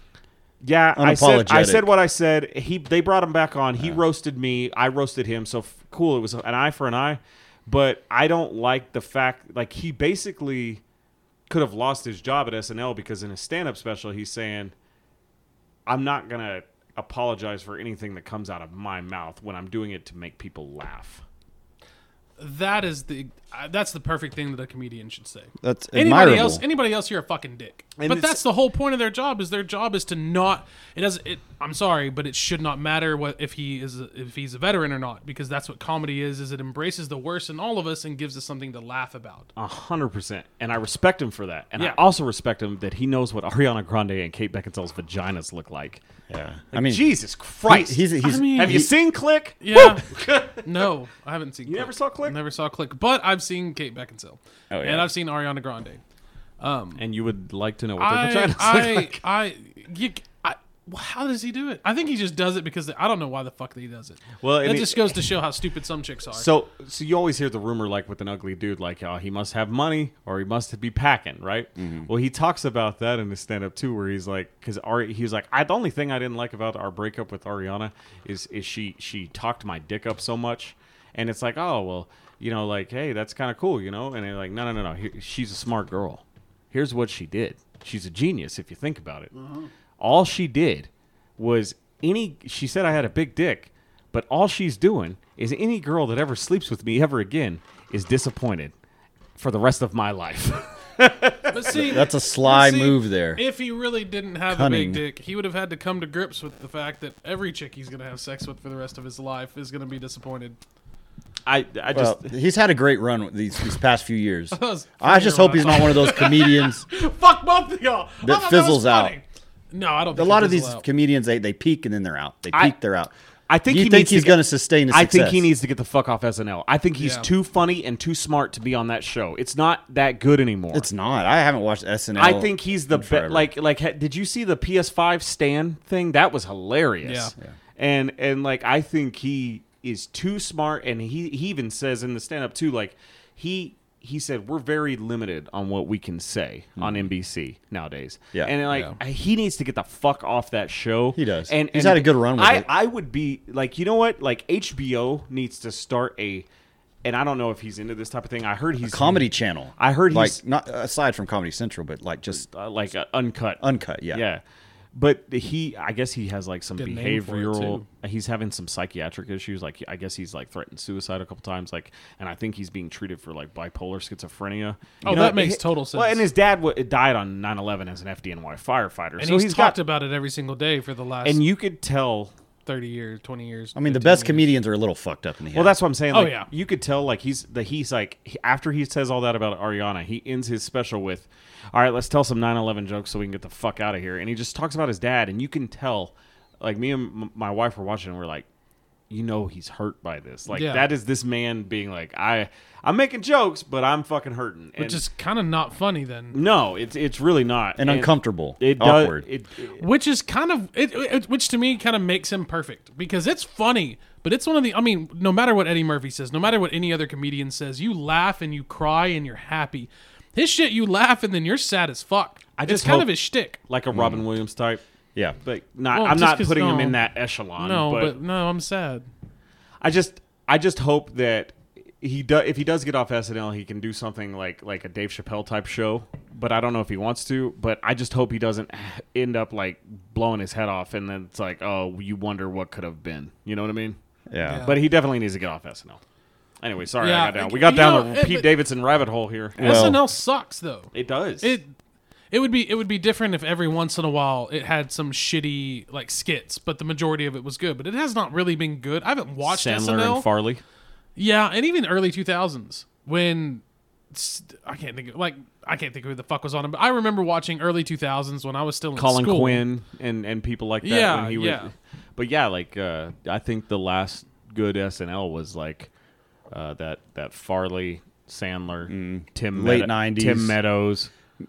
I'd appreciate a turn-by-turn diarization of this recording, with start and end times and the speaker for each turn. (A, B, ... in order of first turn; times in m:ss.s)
0:00.6-0:10.8 A
0:01.0-0:01.9 B
0:11.5-0:14.7 A
0:15.9-0:21.2 A
0:22.4-0:39.5 C
0:25.6-0:26.6 B
0:28.0-0:28.4 A
0:39.6-0:46.0 A
0:46.3-0:47.0 B
0:46.7-0:50.7 A
0:47.6-0:48.9 B
0:48.2-0:48.8 C
0:49.6-0:50.1 C
0:50.6-0:56.0 C
0:51.6-0:52.4 A
0:54.7-0:55.1 B
0:56.6-0:57.0 C
0:57.0-0:59.2 A
0:58.0-1:06.5 C
1:04.4-1:05.3 A
1:06.3-1:29.3 A
1:11.8-1:12.1 B
1:30.0-1:38.7 A
1:39.4-1:41.8 A
1:41.5-1:50.6 C
1:41.7-1:43.4 B
1:44.5-1:45.0 B
1:51.4-1:52.3 A
1:51.9-1:56.8 B
1:54.5-2:00.8 C
1:58.2-1:59.2 B
2:00.1-2:03.1 B
2:03.5-2:10.9 A
2:03.7-2:05.5 B
2:07.0-2:07.3 C
2:10.7-2:13.5 B
2:12.2-2:36.4 A
2:17.0-2:17.3 C
2:26.8-2:27.1 B
2:31.1-2:32.7 B
2:37.0-2:40.4 A
2:38.8-2:42.4 B
2:42.4-2:44.4 A
2:43.6-2:44.2 B
2:44.9-2:59.8 A
2:46.8-2:47.8 C
2:55.0-2:55.4 B
2:55.0-2:56.3 C
2:59.2-3:01.4 C
3:01.2-3:02.3 A
3:02.6-3:04.5 C
3:03.7-3:05.7 B
3:05.5-3:18.4 A
3:06.1-3:06.5 C
3:19.1-3:25.0 A
3:20.5-3:20.9 C
3:24.8-3:26.4 C
3:26.3-3:29.8 A
3:27.8-3:29.2 B
3:29.8-3:43.6 C
3:42.6-3:44.8 A
3:43.9-3:44.2 B
3:45.4-3:48.2 A
3:45.9-3:47.0 C
3:47.6-3:49.1 C
3:49.8-4:04.0 A
4:04.3-4:04.7 B
4:04.4-4:04.8 C
4:04.6-4:06.0 A
4:06.6-4:09.9 A
4:07.0-4:08.5 C
4:09.6-4:10.0 B
4:09.6-4:11.7 C
4:10.9-4:11.5 A
4:12.3-4:20.3 C
4:19.4-4:20.6 A
4:21.2-4:29.6 C
4:29.0-4:35.9 A
4:30.8-4:31.7 C
4:36.5-4:41.1 A
4:38.9-4:40.5 B